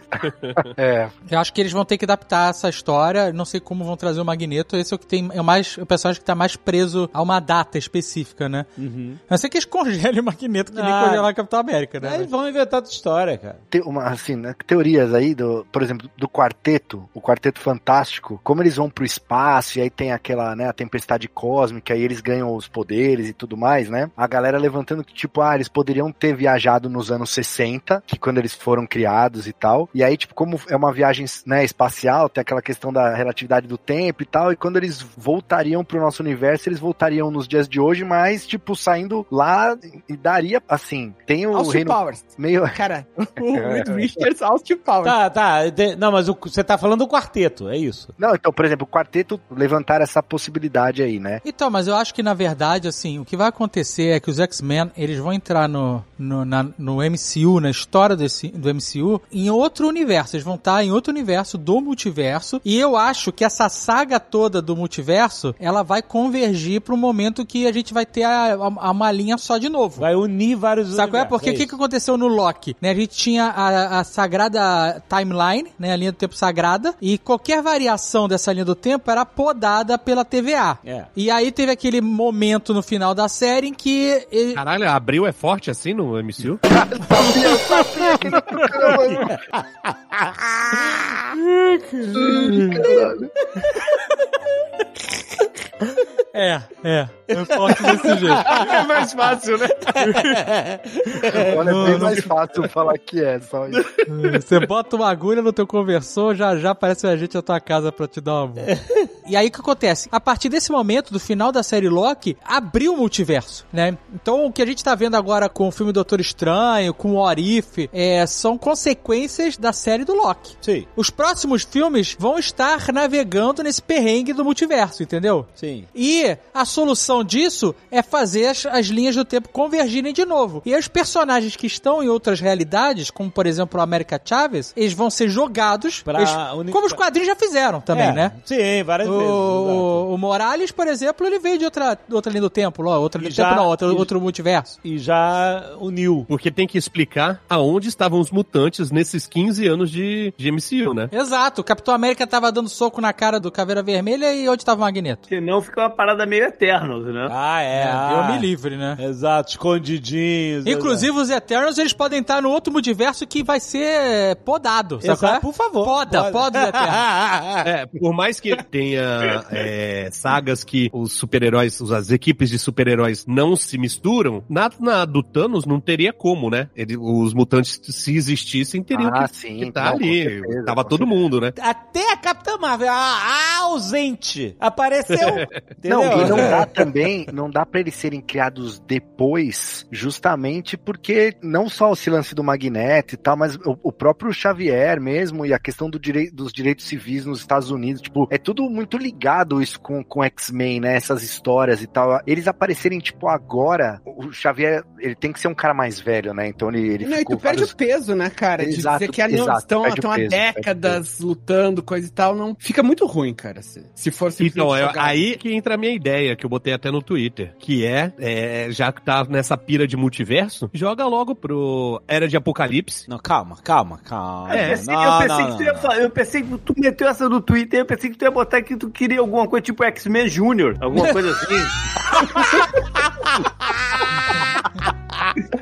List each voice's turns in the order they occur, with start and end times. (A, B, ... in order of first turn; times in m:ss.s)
0:00.2-0:00.7 A
0:00.8-0:01.1 B
0:01.3-0:08.7 C
0:08.8-0:09.2 D
0:09.3-0:12.3 C
0:10.7-0:11.3 D
0:12.0-0:13.6 D
0:13.7-0:42.8 B
0:41.5-0:45.2 E
0:43.4-0:44.3 B
0:45.0-0:48.1 D
0:48.2-0:51.4 B
0:51.4-1:10.1 C
1:10.0-1:11.8 D
1:10.9-1:24.6 C
1:20.8-1:21.1 D
1:24.6-1:26.6 A
1:26.7-1:29.3 B
1:28.7-1:31.2 D
1:31.4-1:32.8 C
1:32.2-1:32.8 D
1:32.2-1:33.3 B
1:36.3-1:38.5 C
1:37.3-1:38.8 D
1:38.5-1:40.0 F
1:40.0-1:42.2 D
1:40.0-1:40.5 C
1:41.1-1:42.3 C
1:41.3-1:43.9 B
1:44.1-1:48.7 C
1:49.3-2:18.3 C
2:00.6-2:00.9 D
2:05.6-2:05.9 D
2:16.1-2:17.0 D
2:17.9-2:20.0 D
2:19.0-2:24.7 C
2:23.2-2:24.1 D
2:24.7-2:26.3 D
2:26.3-2:31.1 A
2:31.1-2:35.2 C
2:35.3-2:37.3 F
2:37.3-2:41.1 D
2:37.8-2:39.0 C
2:40.6-2:47.0 C
2:45.0-2:47.7 D
2:47.6-3:01.6 A
2:58.9-3:01.1 B
3:01.6-3:06.7 D
3:05.1-3:05.6 A
3:05.9-3:27.8 B
3:06.1-3:06.6 A
3:27.0-3:35.2 E
3:28.6-3:31.0 B
3:34.4-3:43.0 A
3:43.1-3:45.9 D
3:44.5-3:51.8 F
3:44.5-3:44.8 A
3:52.2-3:54.4 D